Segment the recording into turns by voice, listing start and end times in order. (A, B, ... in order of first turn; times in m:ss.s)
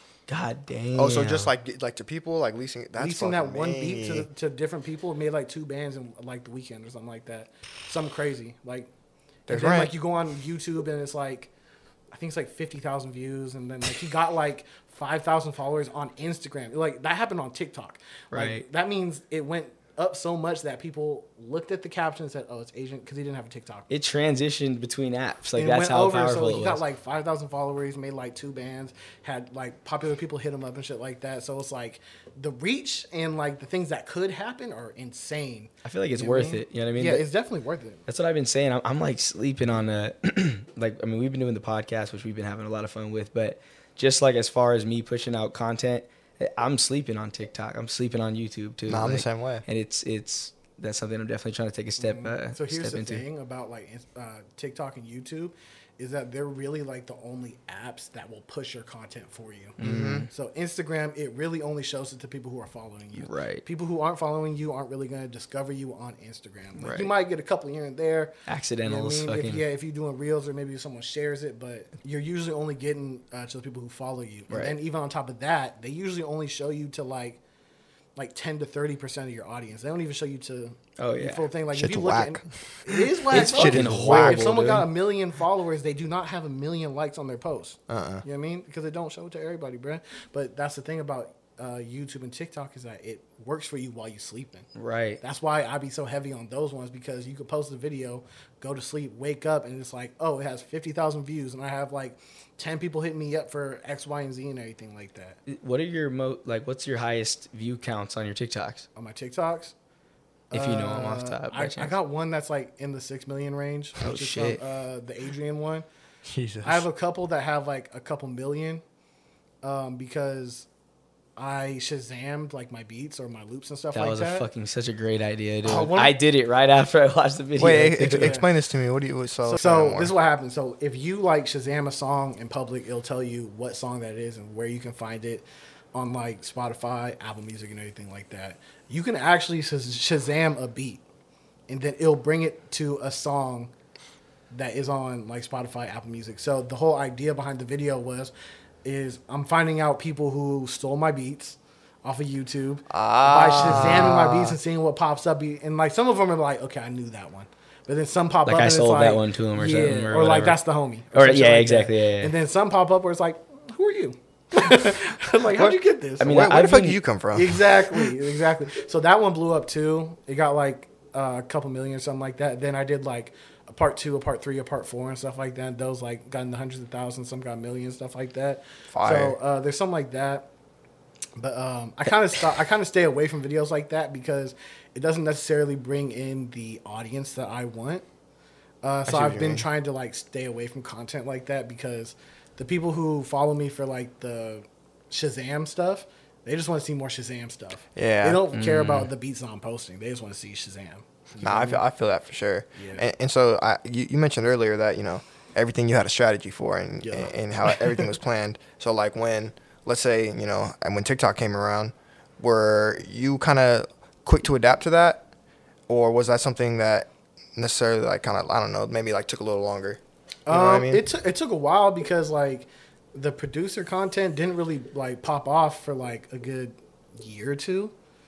0:00.3-0:01.5 A
0:01.0-0:04.3 B
0:03.0-0:08.9 C
0:09.5-0:09.9 B
0:09.5-0:11.5 C
0:12.1-0:23.9 C
0:18.3-0:18.6 A
0:23.9-0:26.8 A
0:25.6-0:38.0 C
0:35.8-0:37.2 A
0:38.1-0:53.2 A
0:48.9-0:49.6 B
0:52.0-1:17.4 C
0:59.8-1:00.3 A
0:59.8-1:00.3 B
1:03.2-1:03.6 A
1:06.8-1:07.1 A
1:08.5-1:09.6 A
1:14.5-1:14.7 A
1:18.2-1:34.7 C
1:21.0-1:21.4 A
1:21.7-1:24.8 B
1:23.3-1:24.8 A
1:27.9-1:28.2 B
1:34.8-1:35.2 A
1:35.2-1:45.4 C
1:45.4-1:48.9 A
1:49.0-1:49.7 C
1:50.5-1:55.8 C
1:50.5-1:51.9 A
1:54.0-1:54.6 A
1:56.3-1:56.9 B
1:56.6-1:58.8 C
1:59.6-2:00.7 C
2:01.4-2:04.4 C
2:03.9-2:08.4 A
2:05.6-2:06.2 C
2:07.6-2:10.1 B
2:08.0-2:08.5 C
2:09.4-2:21.0 C
2:21.7-2:23.7 C
2:24.5-2:28.3 C
2:28.8-2:46.4 C
2:32.9-2:34.6 B
2:38.4-2:40.6 A
2:41.1-2:42.3 A
2:45.5-2:48.1 B
2:46.2-2:47.0 A
2:47.3-3:00.5 C
2:58.9-2:59.4 B
3:01.4-3:08.0 C
3:08.8-3:21.8 C
3:09.1-3:09.7 B
3:18.0-3:18.4 B
3:18.5-3:19.1 A
3:21.4-3:35.3 B
3:22.8-3:23.0 C
3:27.0-3:28.1 C
3:35.9-3:41.0 B
3:40.5-3:47.9 C